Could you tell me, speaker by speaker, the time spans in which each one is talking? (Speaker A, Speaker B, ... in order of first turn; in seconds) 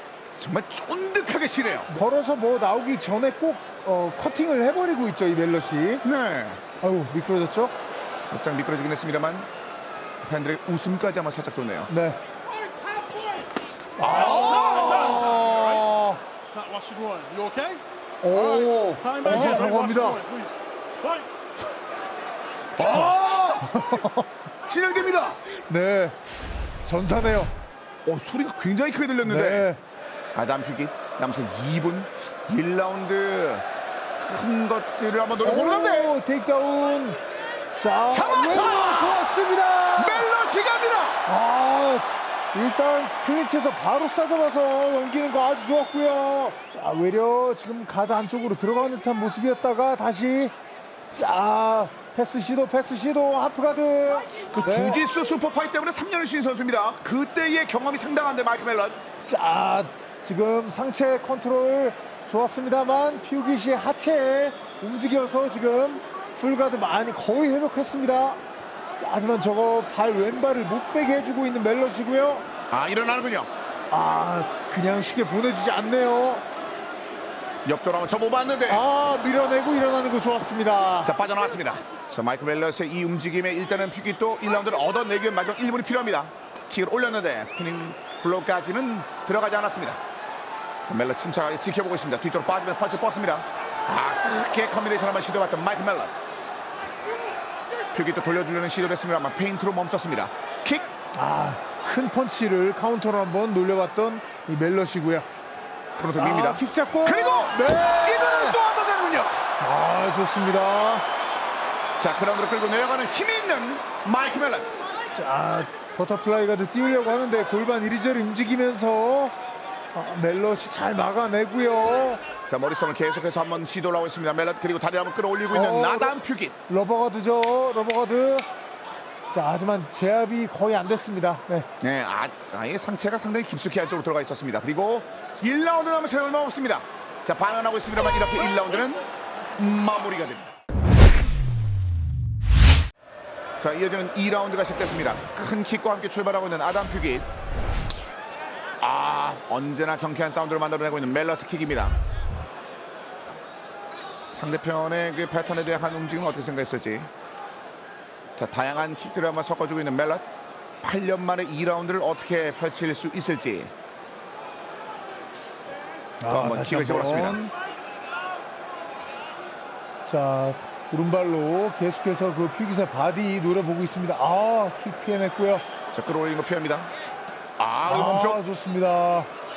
Speaker A: 0.4-1.9, 6.0-6.6, 8.3-9.5, 10.2-11.9, 14.0-15.4, 22.8-23.9, 24.7-25.4, 28.1-29.7, 30.3-33.6, 34.2-36.1, 38.1-39.2, 40.0-41.2, 54.5-59.0, 72.7-73.5, 77.7-78.8, 81.0-90.0, 90.8-96.1, 97.9-100.9, 106.0-109.4, 112.0-114.7, 122.5-126.5, 131.8-139.0, 139.6-140.5, 143.6-147.3, 148.8-152.0, 154.3-157.1, 158.4-160.2, 160.8-163.7, 166.3-167.4, 175.9-176.9, 177.6-178.4
Speaker B: 1.9-6.0, 6.8-7.7, 11.9-12.2, 14.0-16.2, 18.2-20.3, 22.8-24.3, 25.7-26.2, 26.9-27.5, 29.2-29.8, 35.4-37.2, 37.8-40.3, 41.3-50.5, 51.1-55.0, 59.3-68.4, 69.0-72.5, 73.9-76.4, 78.7-81.1, 101.2-105.3, 106.2-108.6, 109.6-111.0, 115.1-119.3, 119.9-122.2, 125.5-126.2, 126.7-128.5, 129.3-131.7, 166.2-167.5, 170.1-175.6, 177.8-179.3
Speaker C: 16.5-17.8, 18.3-21.3